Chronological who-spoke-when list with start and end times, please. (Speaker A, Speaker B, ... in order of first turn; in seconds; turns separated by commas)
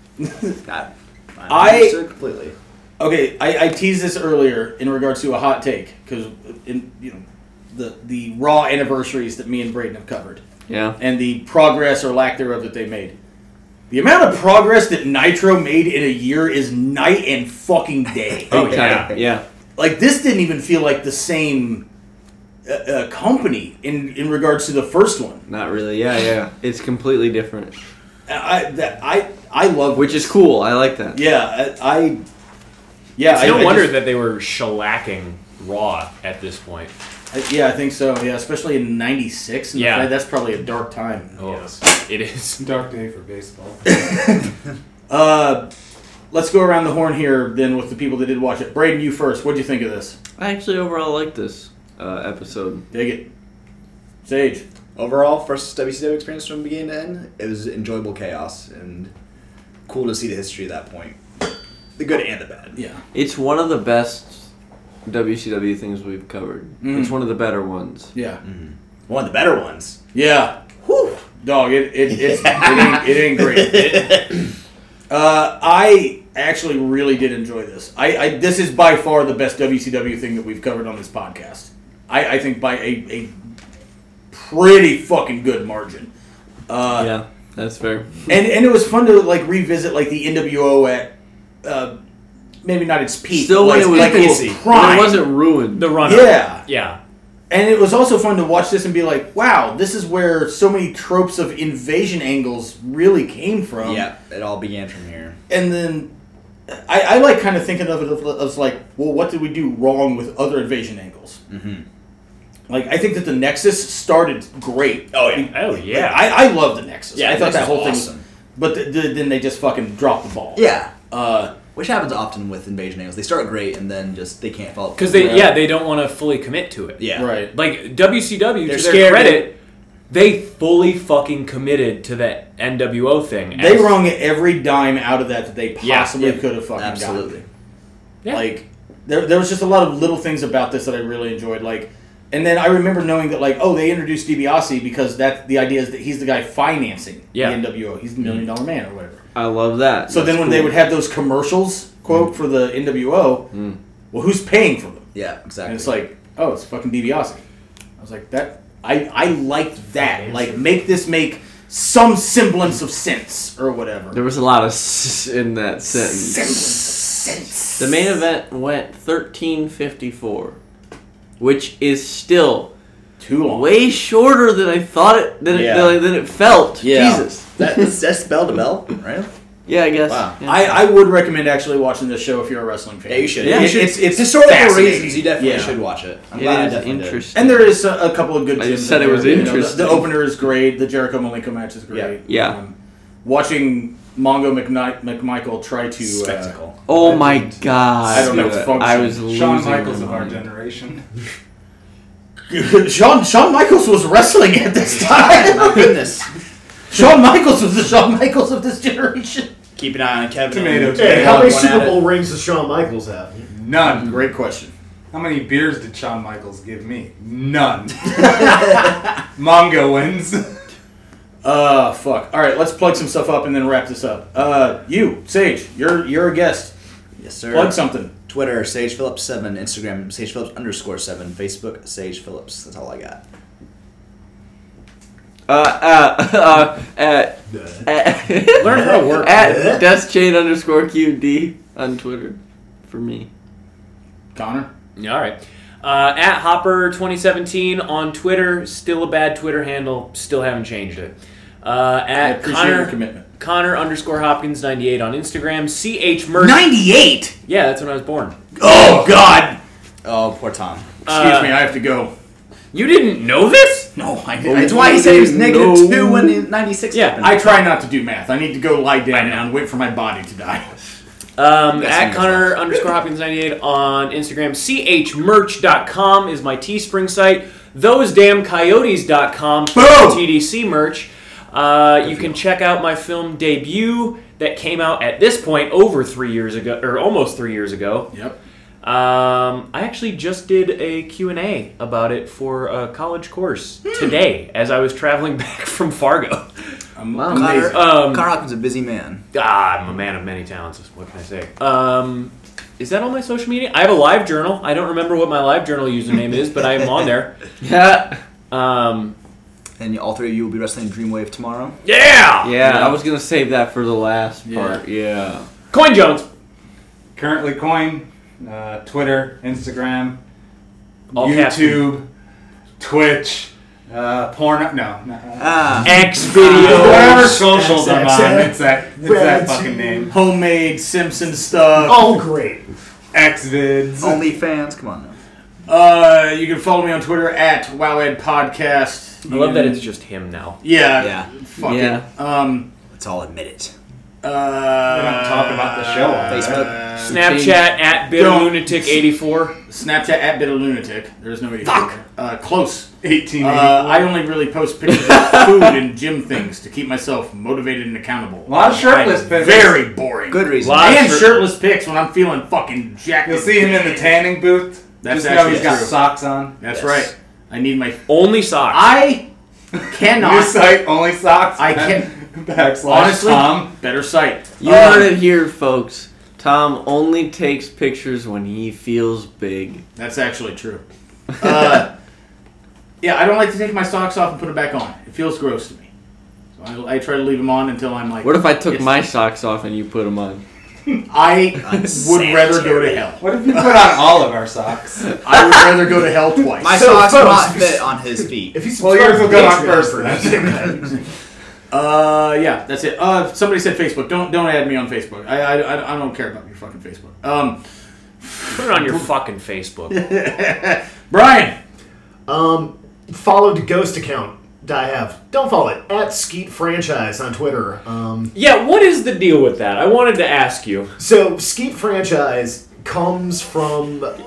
Speaker A: 0.2-0.6, Speaker B: 0.7-2.6, Speaker A: 1.5-2.0, Speaker A: 3.0-10.4, Speaker C: 10.7-11.0, Speaker A: 11.0-13.2, Speaker A: 13.9-19.1, Speaker D: 18.5-19.1, Speaker C: 18.5-19.4, Speaker A: 19.8-21.9, Speaker A: 22.7-25.4, Speaker C: 25.5-27.8, Speaker A: 28.3-30.3, Speaker C: 29.9-31.2, Speaker A: 31.1-32.2, Speaker A: 33.2-34.0, Speaker D: 33.3-36.9, Speaker A: 37.3-41.8, Speaker D: 39.7-40.1, Speaker D: 41.4-42.6, Speaker E: 42.6-44.0, Speaker A: 43.9-44.5, Speaker A: 45.1-45.7, Speaker A: 46.3-50.2, Speaker C: 50.4-52.9, Speaker A: 52.9-53.3, Speaker A: 54.3-54.6, Speaker B: 55.0-59.1, Speaker B: 59.9-61.2, Speaker B: 62.0-62.8, Speaker A: 62.8-63.0, Speaker C: 63.1-64.5, Speaker C: 65.1-68.1, Speaker A: 66.8-67.2, Speaker A: 68.1-68.4, Speaker B: 68.4-70.0, Speaker A: 70.1-70.5, Speaker B: 70.8-71.2, Speaker A: 71.4-74.3, Speaker B: 72.1-74.5, Speaker A: 75.1-83.3, Speaker A: 84.3-86.1, Speaker A: 86.7-87.1, Speaker C: 87.0-88.2, Speaker A: 88.3-91.1, Speaker A: 91.6-92.0, Speaker A: 92.6-95.3, Speaker C: 93.3-96.0, Speaker B: 93.6-94.7, Speaker D: 95.8-97.0, Speaker A: 96.0-96.6, Speaker A: 97.5-104.1, Speaker B: 103.8-105.4, Speaker A: 105.5-106.1, Speaker A: 106.7-111.4, Speaker B: 111.5-111.8, Speaker A: 112.7-121.5, Speaker B: 115.1-115.5, Speaker D: 115.5-116.4, Speaker B: 117.2-118.2, Speaker B: 120.5-120.9, Speaker B: 121.8-125.5, Speaker D: 125.0-129.6, Speaker B: 127.0-127.3, Speaker A: 127.2-127.5, Speaker B: 128.7-129.5, Speaker D: 130.1-134.0, Speaker A: 133.6-137.3, Speaker D: 135.8-136.3, Speaker B: 136.8-137.4, Speaker A: 138.3-149.2, Speaker D: 147.3-147.6, Speaker C: 149.3-150.8, Speaker A: 150.1-153.5, Speaker A: 154.1-155.1, Speaker B: 155.1-156.0, Speaker A: 155.7-157.4, Speaker A: 158.0-164.2, Speaker F: 159.9-160.7, Speaker C: 164.1-166.4, Speaker A: 165.9-168.1, Speaker C: 167.8-170.6, Speaker C: 171.4-172.7, Speaker A: 173.2-173.7, Speaker C: 173.5-177.9, Speaker B: 175.5-176.0, Speaker A: 176.8-177.3, Speaker B: 177.6-179.3, Speaker C: 179.7-180.8, Speaker B: 180.1-180.4, Speaker A: 180.4-185.8, Speaker B: 183.1-187.2, Speaker C: 183.4-183.8, Speaker C: 186.3-187.8, Speaker A: 187.3-197.1, Speaker C: 188.6-190.2, Speaker C: 192.3-192.6, Speaker B: 196.0-196.8, Speaker C: 196.9-200.4, Speaker E: 196.9-197.6, Speaker A: 198.1-199.2, Speaker E: 199.2-201.1, Speaker A: 202.5-206.1, Speaker B: 204.9-206.3, Speaker A: 206.9-209.5, Speaker B: 209.8-212.1, Speaker E: 210.5-211.7, Speaker F: 210.9-213.5, Speaker E: 213.5-214.2, Speaker A: 213.8-214.7, Speaker E: 215.1-218.8, Speaker E: 219.4-220.5, Speaker A: 221.4-226.7, Speaker B: 227.2-233.2, Speaker A: 227.5-228.1, Speaker C: 235.5-243.3, Speaker F: 237.5-237.9, Speaker D: 238.6-239.8, Speaker F: 238.6-239.8, Speaker A: 244.3-244.7, Speaker D: 245.0-256.6, Speaker A: 252.2-253.2, Speaker A: 256.4-257.3, Speaker D: 257.5-258.4, Speaker A: 258.6-259.6, Speaker B: 260.0-260.9, Speaker A: 261.1-262.1, Speaker D: 261.1-261.6, Speaker D: 262.7-263.9, Speaker A: 264.0-265.1, Speaker C: 264.5-266.3, Speaker B: 264.6-267.7, Speaker D: 266.9-267.4, Speaker A: 267.2-270.7, Speaker D: 269.1-269.4, Speaker D: 271.4-288.1, Speaker B: 271.7-272.6, Speaker A: 279.7-280.3, Speaker B: 282.0-282.4, Speaker A: 288.1-288.4, Speaker D: 288.8-296.5, Speaker A: 297.0-297.8, Speaker C: 297.2-297.5, Speaker B: 297.3-299.2, Speaker D: 297.7-298.3, Speaker D: 299.3-307.4, Speaker C: 307.6-308.2, Speaker D: 308.5-309.2, Speaker B: 309.8-311.8, Speaker D: 311.9-312.5, Speaker C: 312.4-315.5, Speaker A: 314.4-314.8, Speaker D: 315.7-316.3, Speaker E: 317.2-320.2, Speaker D: 321.1-321.9, Speaker E: 321.1-322.1, Speaker E: 322.8-325.5, Speaker B: 325.4-326.1, Speaker D: 325.8-327.4, Speaker A: 326.3-327.4, Speaker E: 326.6-330.2, Speaker F: 327.0-330.1, Speaker A: 330.1-332.2, Speaker F: 331.9-332.7, Speaker E: 333.1-334.2, Speaker B: 334.0-335.2, Speaker A: 335.7-339.8, Speaker D: 339.3-340.6, Speaker A: 340.6-342.7, Speaker B: 341.0-341.3, Speaker C: 341.6-342.0, Speaker B: 342.9-343.7, Speaker A: 344.2-347.2, Speaker E: 344.9-346.7, Speaker B: 346.3-346.8, Speaker C: 347.0-347.6, Speaker D: 347.1-349.5, Speaker A: 348.1-349.0, Speaker A: 349.5-364.3, Speaker E: 353.0-354.1, Speaker C: 354.9-355.8, Speaker E: 358.5-359.8, Speaker B: 360.3-361.2, Speaker D: 360.6-361.4, Speaker E: 363.2-366.6, Speaker A: 365.0-366.0, Speaker B: 365.4-365.9, Speaker A: 366.6-369.3, Speaker B: 366.7-367.1, Speaker D: 368.1-368.9, Speaker E: 369.7-373.7, Speaker A: 369.9-370.6, Speaker A: 371.6-372.1, Speaker A: 372.8-375.2, Speaker C: 374.6-379.8, Speaker A: 380.0-380.8, Speaker A: 381.4-381.9, Speaker A: 383.0-385.9, Speaker A: 386.6-388.9, Speaker C: 388.2-390.4, Speaker A: 391.1-394.0, Speaker B: 391.6-393.2, Speaker E: 393.2-395.1, Speaker A: 395.2-396.8, Speaker B: 396.6-398.6, Speaker F: 396.7-401.0, Speaker E: 398.8-400.9, Speaker A: 401.7-407.6, Speaker A: 408.2-409.1, Speaker D: 408.5-410.0, Speaker A: 409.9-411.6, Speaker F: 412.3-418.3, Speaker D: 418.3-420.9, Speaker F: 421.0-424.1